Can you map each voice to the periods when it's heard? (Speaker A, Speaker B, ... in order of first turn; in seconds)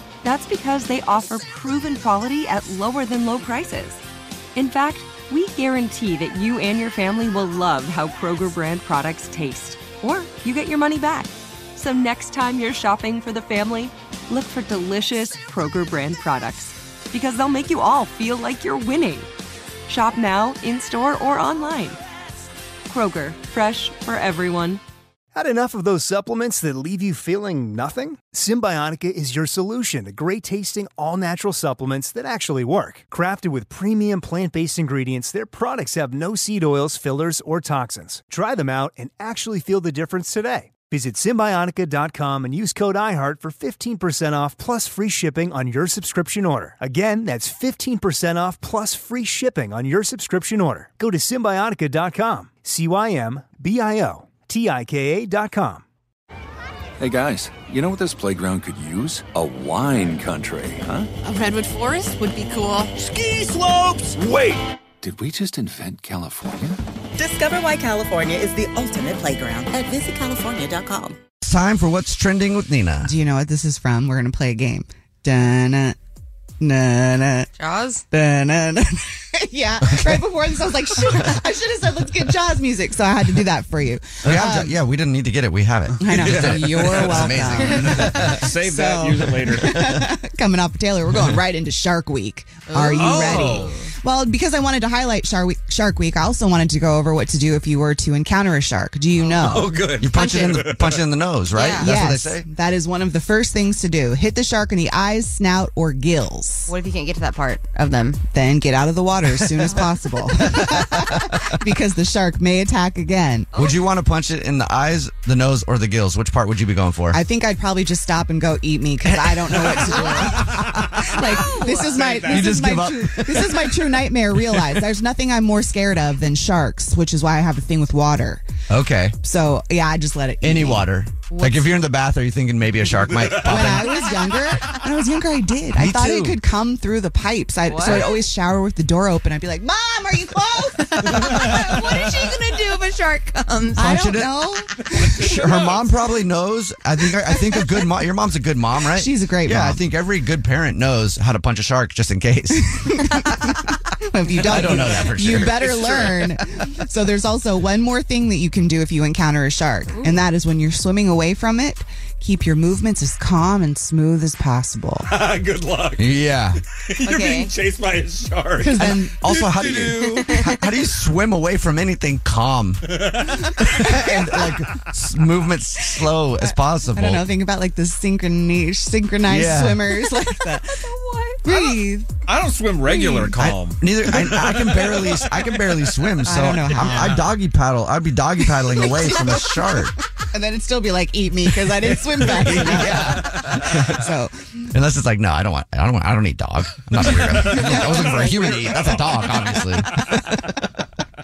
Speaker A: 0.2-4.0, 4.5-19.3, 19.9-22.0, 22.9-24.8
Speaker B: 25.3-55.8
Speaker C: 57.0-61.1, 64.4-66.8
Speaker D: 61.3-62.8, 67.2-71.2
Speaker E: 61.3-62.8, 77.6-78.0, 92.7-93.1, 100.1-100.6, 101.5-101.9, 106.7-108.2, 113.5-113.8, 121.3-122.0, 131.3-131.8, 137.7-138.2, 140.9-143.9, 167.0-167.5, 170.0-170.4, 180.9-181.6
Speaker F: 63.0-64.5, 86.1-89.9, 92.8-93.7, 99.2-101.0, 121.9-122.3, 165.1-166.1, 166.9-170.5, 173.1-173.8, 182.3-185.6, 186.8-187.2
Speaker G: 71.4-73.1, 79.8-80.3, 81.0-81.4, 84.2-88.5, 89.6-90.0, 93.0-93.6, 99.6-102.5, 110.4-111.2, 113.5-117.2, 119.0-120.8, 122.2-123.7, 128.7-129.2, 130.4-134.3, 135.8-136.4, 137.8-138.1, 143.8-144.6, 145.1-153.2, 154.4-156.3, 166.0-166.6, 168.8-177.2, 179.3-180.0, 183.3-189.9, 191.8-194.1, 194.7-200.2
Speaker H: 73.0-76.0, 76.6-77.5, 78.1-84.7, 86.0-99.8, 101.7-106.7, 108.3-113.5, 117.1-128.4, 129.2-130.8, 133.3-142.3, 143.7-145.8, 148.9-149.8, 152.8-153.3, 154.1-165.1, 168.6-169.2, 176.4-180.8, 181.4-182.2, 183.0-183.3, 186.2-187.2, 190.3-194.5, 197.4-198.4